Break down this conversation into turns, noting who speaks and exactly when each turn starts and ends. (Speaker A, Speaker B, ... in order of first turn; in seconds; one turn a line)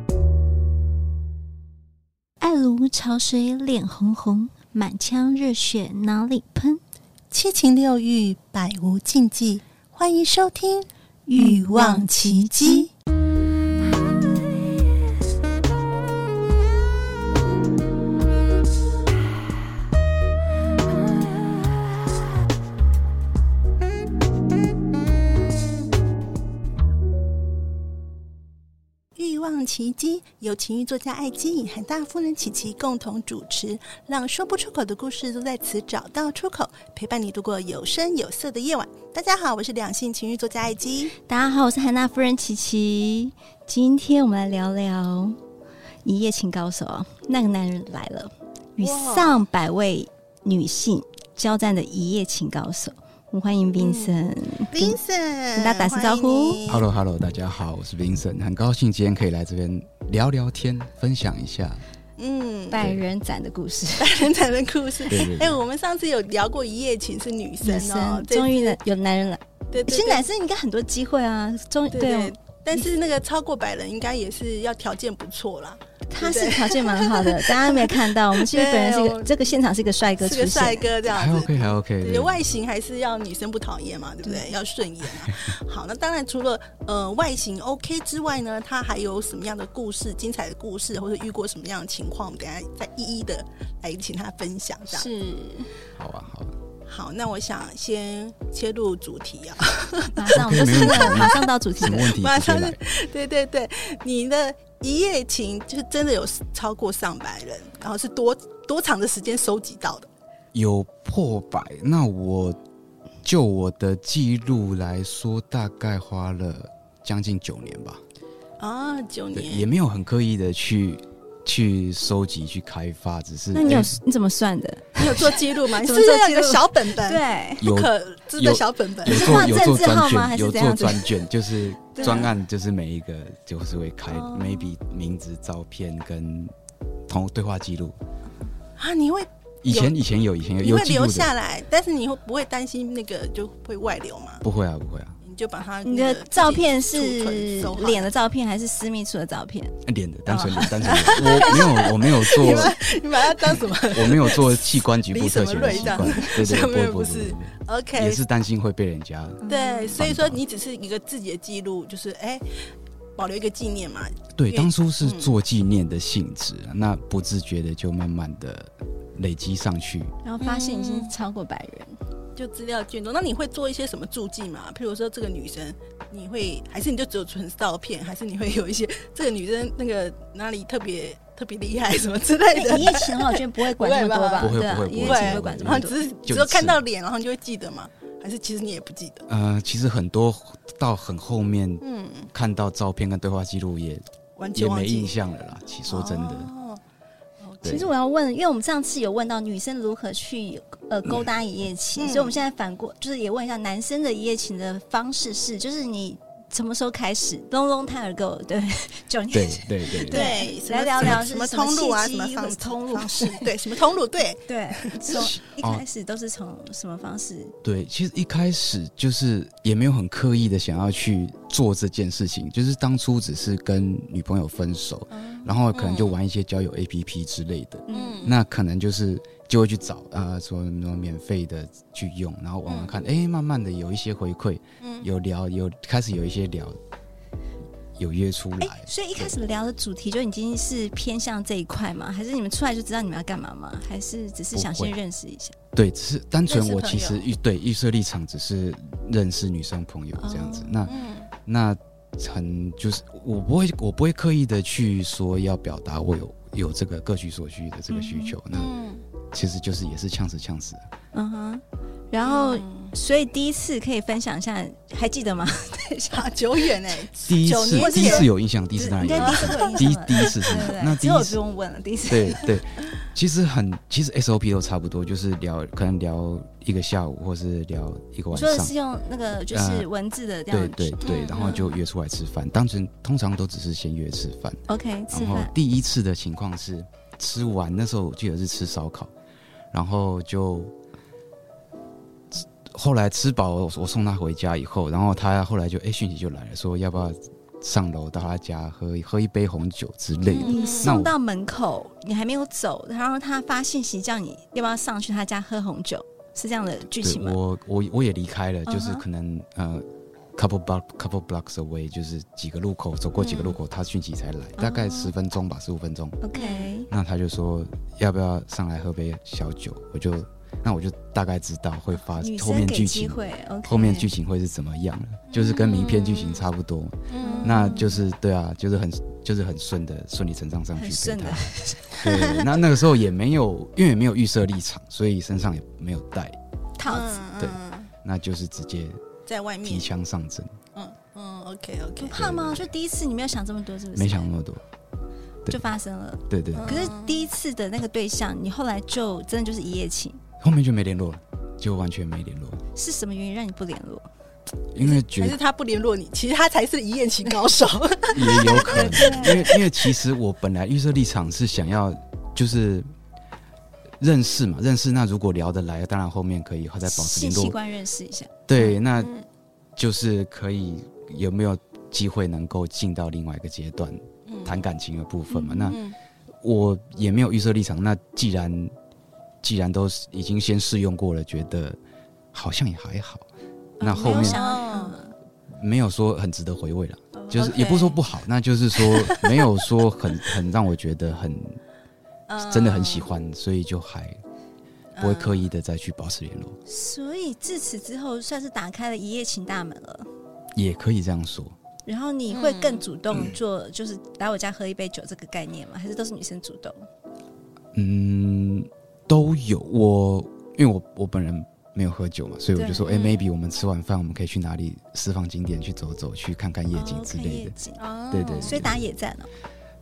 Speaker A: 2.4-6.8
Speaker B: 7.3-12.9
Speaker A: 11.3-12.8
Speaker B: 29.1-41.1
Speaker A: 41.2-45.4
Speaker A: 46.0-55.0
Speaker B: 48.8-49.5
Speaker B: 53.8-54.1
Speaker B: 54.7-56.8
Speaker A: 55.5-56.6
Speaker C: 56.7-61.8
Speaker B: 62.2-62.9
Speaker A: 62.7-64.2
Speaker C: 62.8-63.0
Speaker B: 64.0-68.8
Speaker C: 65.1-65.6
Speaker A: 67.6-72.3
Speaker B: 69.7-70.2
Speaker B: 71.9-79.3
Speaker A: 76.1-80.9
Speaker B: 80.2-95.1
Speaker C: 81.1-82.4
Speaker A: 84.2-84.5
Speaker A: 94.9-95.7
Speaker C: 96.0-96.5
Speaker B: 96.9-110.1
Speaker A: 100.2-102.2
Speaker C: 100.3-102.8
Speaker C: 110.5-112.6
Speaker C: 113.2-118.0
Speaker B: 118.6-119.7
Speaker C: 119.3-124.0
Speaker A: 123.5-127.7
Speaker B: 125.0-129.6
Speaker C: 127.6-136.5
Speaker A: 129.1-131.2
Speaker A: 131.9-132.3
Speaker B: 132.0-132.3
Speaker A: 134.1-134.7
Speaker C: 137.1-137.9
Speaker B: 138.8-139.9
Speaker C: 139.6-141.3
Speaker B: 140.6-144.4
Speaker C: 144.4-145.2
Speaker B: 145.2-148.1
Speaker A: 145.8-149.8
Speaker C: 149.8-152.8
Speaker B: 150.3-158.2
Speaker C: 153.8-159.4
Speaker A: 155.6-156.2
Speaker A: 159.4-160.0
Speaker B: 159.4-162.4
Speaker C: 159.9-160.4
Speaker B: 163.2-165.3
Speaker C: 164.3-170.1
Speaker A: 170.2-172.0
Speaker B: 170.4-171.1
Speaker B: 172.3-189.2
Speaker A: 182.5-186.1
Speaker C: 184.4-186.8
Speaker C: 189.3-196.5
Speaker B: 191.8-192.3
Speaker B: 194.4-195.1
Speaker B: 195.8-196.8
Speaker B: 197.4-197.7
Speaker C: 197.6-197.9
Speaker A: 197.6-213.5
Speaker B: 201.9-202.4
Speaker C: 209.3-210.3
Speaker B: 210.1-215.3
Speaker A: 214.5-217.5
Speaker C: 215.1-215.8
Speaker C: 217.6-236.8
Speaker A: 225.1-225.5
Speaker B: 225.7-226.1
Speaker A: 227.9-228.2
Speaker B: 227.9-228.3
Speaker B: 232.7-232.9
Speaker B: 234.8-235.1
Speaker C: 237.9-239.4
Speaker A: 238.6-245.5
Speaker C: 244.5-244.9
Speaker C: 245.7-258.7
Speaker B: 246.4-247.2
Speaker B: 250.2-251.3
Speaker A: 257.9-258.4
Speaker B: 258.5-259.0
Speaker C: 259.3-260.8
Speaker A: 261.1-266.3
Speaker B: 262.2-262.9
Speaker B: 266.1-268.3
Speaker C: 267.2-271.4
Speaker A: 267.7-272.5
Speaker B: 269.1-270.6
Speaker C: 272.1-278.7
Speaker A: 278.3-281.6
Speaker C: 279.5-279.9
Speaker C: 280.5-289.1
Speaker B: 281.0-281.8
Speaker A: 284.7-285.5
Speaker C: 289.7-290.7
Speaker C: 292.4-301.1
Speaker B: 300.3-301.0
Speaker A: 300.4-307.4
Speaker C: 306.9-316.2
Speaker A: 308.7-309.0
Speaker B: 313.2-313.6
Speaker A: 314.6-315.1
Speaker A: 316.2-316.9
Speaker B: 316.3-316.7
Speaker C: 316.9-336.4
Speaker A: 321.9-324.1
Speaker B: 325.3-326.4
Speaker B: 327.1-327.9
Speaker A: 327.2-328.0
Speaker A: 330.8-332.0
Speaker B: 332.0-332.6
Speaker A: 336.8-337.2
Speaker B: 336.8-337.9
Speaker C: 337.4-339.0
Speaker B: 339.2-339.9
Speaker C: 339.6-340.6
Speaker B: 340.7-342.2
Speaker A: 342.0-344.3
Speaker C: 342.1-342.7
Speaker C: 343.9-344.6
Speaker A: 345.5-350.2
Speaker C: 346.3-346.9
Speaker B: 346.6-347.3
Speaker C: 350.4-352.6
Speaker A: 352.7-354.1
Speaker C: 354.7-355.4
Speaker B: 354.8-359.7
Speaker C: 358.1-362.9
Speaker A: 358.2-359.6
Speaker C: 364.0-367.6
Speaker A: 366.9-368.3
Speaker C: 368.5-369.1
Speaker B: 368.6-369.2
Speaker C: 369.8-375.8
Speaker B: 374.2-374.6
Speaker A: 375.3-375.8
Speaker B: 375.6-375.9
Speaker C: 376.4-378.7
Speaker C: 379.4-381.8
Speaker C: 382.3-383.2
Speaker A: 383.8-385.0
Speaker C: 383.8-384.4
Speaker B: 384.0-385.1
Speaker C: 385.5-391.6
Speaker B: 387.2-388.0
Speaker B: 388.7-389.5
Speaker B: 392.3-393.1
Speaker C: 392.4-394.2
Speaker B: 394.9-395.4
Speaker C: 395.0-396.6
Speaker A: 396.7-400.1
Speaker C: 400.6-401.5
Speaker A: 401.9-406.9
Speaker B: 402.3-402.9
Speaker C: 403.1-403.4
Speaker C: 407.7-417.5
Speaker A: 412.5-412.9
Speaker B: 412.9-413.2
Speaker A: 416.7-419.3
Speaker B: 417.8-418.6
Speaker C: 418.1-418.8